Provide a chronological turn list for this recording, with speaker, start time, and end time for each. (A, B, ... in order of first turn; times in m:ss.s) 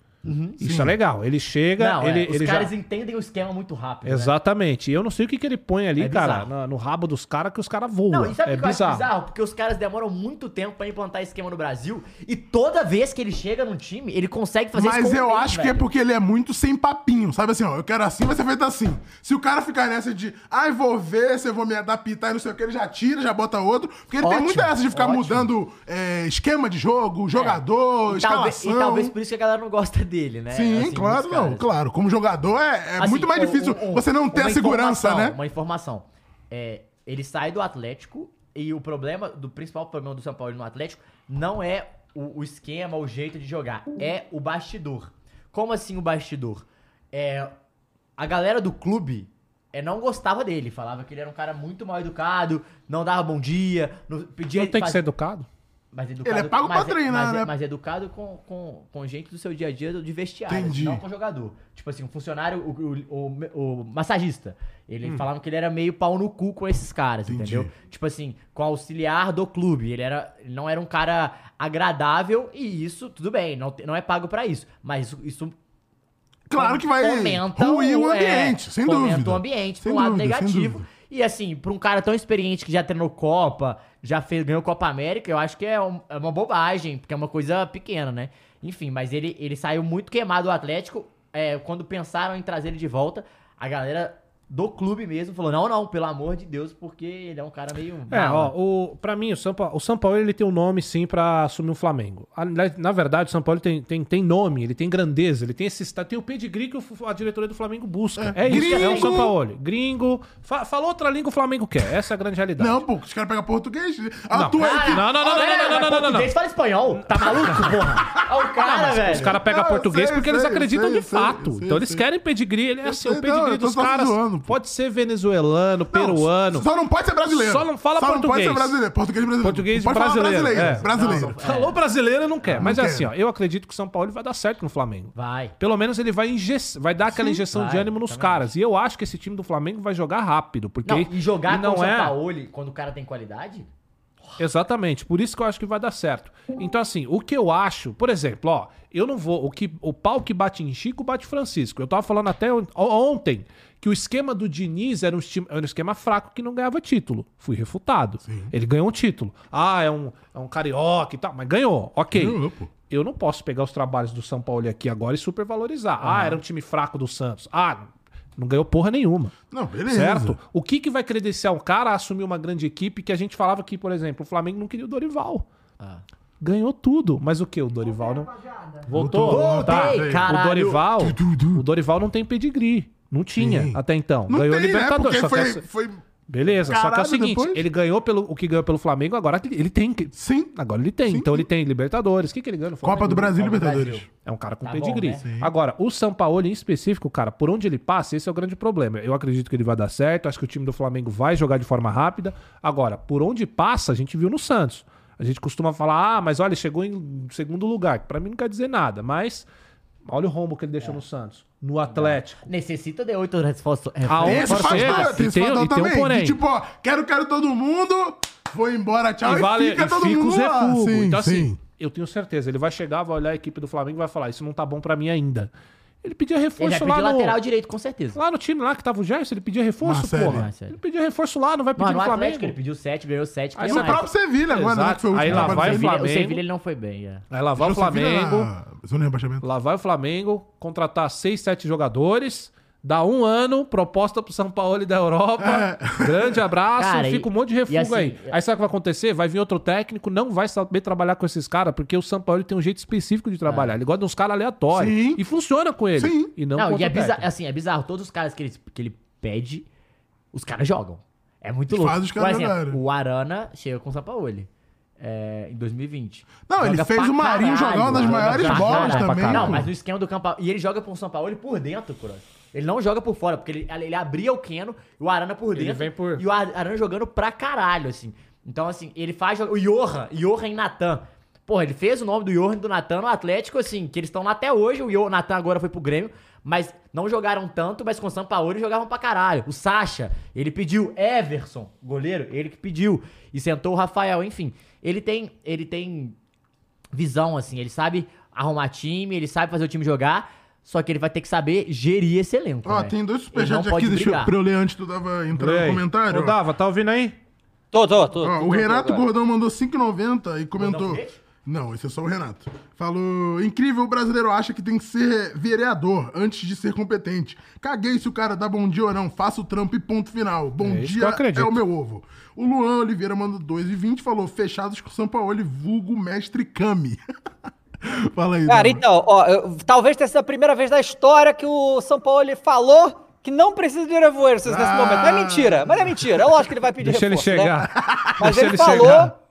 0:00.2-0:00.6 A
0:00.6-0:02.7 B
0:00.6-0:01.0 C
0:01.8-0:04.3 A
0:04.0-0:09.1 B
0:06.0-0:06.5 A
0:08.1-0:15.8 A
0:14.8-0:29.1 C
0:24.2-0:25.5 A
0:27.3-0:31.7 A
0:30.5-0:35.4 C
0:33.0-0:47.5 A
0:48.2-0:55.0 A
0:54.6-0:55.5 B
0:55.9-1:15.5 A
0:56.2-0:57.5 C
1:00.5-1:01.0 C
1:07.3-1:07.7 C
1:16.5-1:20.8 C
1:16.5-1:38.5 A
1:38.1-1:52.8 B
1:48.2-1:49.4 C
1:48.4-1:49.3 A
1:52.6-1:55.8 C
1:54.3-1:56.3 B
1:54.6-1:59.4 A
1:56.9-1:57.8 B
1:57.3-2:02.0 C
1:58.6-2:06.7 B
2:02.8-2:04.6 C
2:05.9-2:11.4 C
2:07.3-2:08.7 B
2:09.4-2:22.2 B
2:10.5-2:11.8 A
2:12.4-2:12.7 A
2:12.6-2:13.1 C
2:15.2-2:15.5 A
2:17.2-2:18.5 A
2:20.8-2:23.7 A
2:24.4-2:49.4 B
2:38.3-2:38.5 C
2:42.1-2:42.7 C
2:46.0-2:46.4 A
2:49.5-2:50.4 C
2:49.9-2:55.5 B
2:56.4-2:58.3 B
2:58.8-3:05.6 B
2:58.9-3:00.3 C
2:59.2-3:00.8 A
3:01.0-3:01.6 C
3:03.4-3:06.0 C
3:06.3-3:13.4 B
3:06.6-3:07.6 C
3:10.2-3:10.5 C
3:11.1-3:11.5 C
3:12.8-3:14.1 C
3:13.1-3:14.1 A
3:14.2-3:29.5 B
3:14.6-3:15.3 A
3:15.2-3:15.5 C
3:30.1-3:32.5 B
3:31.9-3:35.2 A
3:34.1-3:36.4 B
3:34.2-3:41.6 C
3:39.2-3:45.5 B
3:46.0-3:47.4 B
3:46.6-3:48.2 A
3:48.2-3:52.6 B
3:49.8-3:50.5 C
3:50.2-3:50.8 A
3:51.8-3:54.1 A
3:53.6-3:56.4 B
3:53.6-3:55.9 C
3:55.2-3:57.2 A
3:57.3-3:58.5 B
3:57.6-3:59.5 C
3:59.4-4:17.3 B
4:05.4-4:06.4 C
4:06.8-4:08.4 A
4:13.4-4:13.8 A
4:14.7-4:15.2 C
4:16.0-4:16.3 C
4:16.6-4:19.7 A
4:20.3-4:56.2 A
4:21.7-4:22.8 C
4:26.5-4:29.7 C
4:27.9-4:29.7 B
4:35.6-4:36.2 B
4:56.9-5:04.3 A
5:02.6-5:06.4 C
5:05.3-5:07.2 B
5:07.7-5:09.1 D
5:08.2-5:27.0 C
5:10.6-5:11.2 A
5:20.6-5:21.6 B
5:27.8-5:28.8 C
5:28.5-5:37.7 D
5:34.4-5:36.4 C
5:36.8-5:39.1 B
5:37.8-5:39.1 C
5:38.2-5:39.1 D